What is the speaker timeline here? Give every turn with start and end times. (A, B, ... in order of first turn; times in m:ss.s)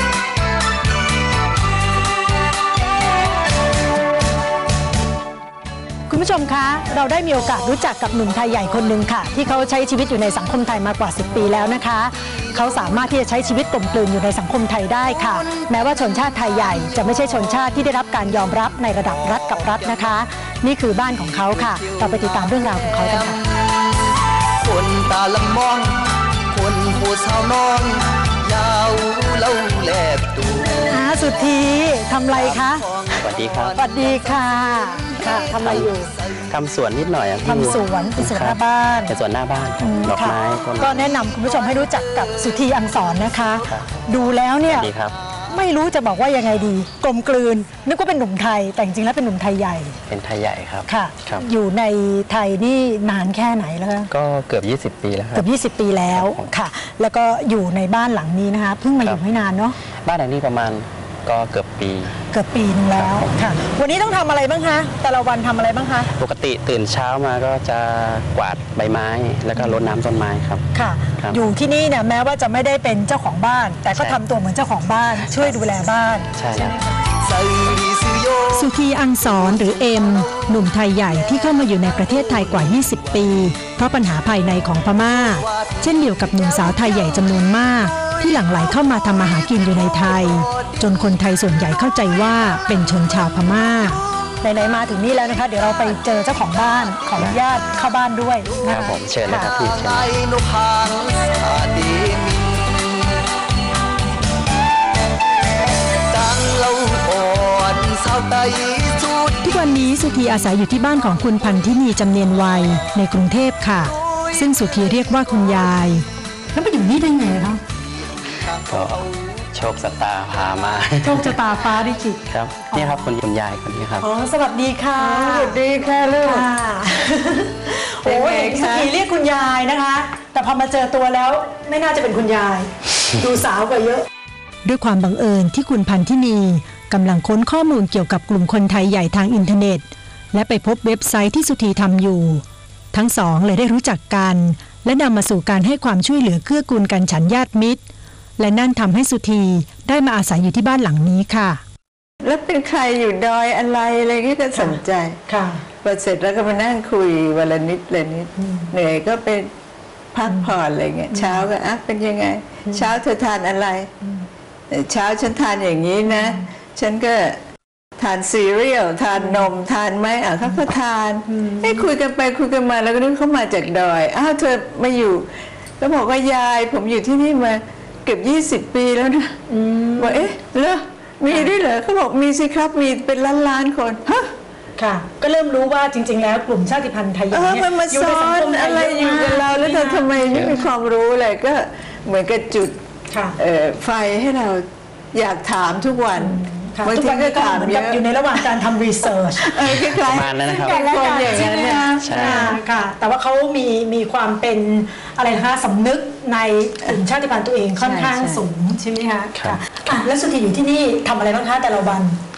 0:06.1-0:23.4 A
0:15.2-0:15.6 B
0:19.4-0:19.8 B
0:21.6-0:24.1 B
0:24.6-0:30.9 B
0:30.9-0:32.8 A
0:32.3-0:36.4 B
0:33.2-0:33.8 C
0:33.8-0:36.1 A
0:36.5-0:41.1 C
0:37.4-0:39.1 A
0:39.8-0:44.9 A
0:41.5-0:42.2 B
0:44.7-0:45.2 C
0:45.5-0:50.0 A
0:50.1-0:51.4 C
0:50.9-0:54.1 A
0:54.1-0:55.5 C
0:55.4-0:59.8 A
0:56.1-0:56.5 C
1:00.0-1:02.2 C
1:02.3-1:06.1 A
1:03.0-1:03.3 C
1:06.1-1:10.6 C
1:10.7-1:16.3 A
1:15.2-1:15.6 C
1:16.4-1:16.8 C
1:17.2-1:18.7 B
1:18.5-1:39.5 A
1:19.3-1:20.5 B
1:21.2-1:23.1 B
1:25.4-1:25.8 B
1:29.9-1:30.7 B
1:38.6-1:40.1 C
1:39.5-1:43.2 B
1:46.1-1:49.4 B
1:49.4-1:57.6 A
1:58.7-2:01.4 C
2:01.0-2:02.2 A
2:02.3-2:04.1 C
2:02.7-2:03.0 A
2:04.0-2:05.6 A
2:05.0-2:06.5 D
2:06.2-2:14.1 A
2:08.0-2:08.9 D
2:14.6-2:27.8 A
2:28.4-2:31.6 A
2:32.2-2:35.2 D
2:34.6-2:35.6 A
2:35.8-2:39.5 D
2:38.4-2:38.7 A
2:40.1-2:43.9 D
2:41.1-2:41.5 A
2:44.7-2:47.4 D
2:46.1-2:46.4 A
2:48.0-2:55.3 D
2:49.2-2:49.5 A
2:51.3-2:51.8 A
2:55.8-2:59.4 D
2:59.5-3:00.3 A
3:00.0-3:04.3 D
3:01.3-3:01.5 A
3:04.8-3:10.6 A
3:07.3-3:12.8 D
3:13.1-3:13.4 A
3:13.4-3:18.0 D
3:16.2-3:19.8 A
3:19.4-3:22.5 D
3:20.0-3:21.5 C
3:20.5-3:32.2 A
3:22.0-3:22.6 C
3:27.8-3:28.4 D
3:29.4-3:29.6 C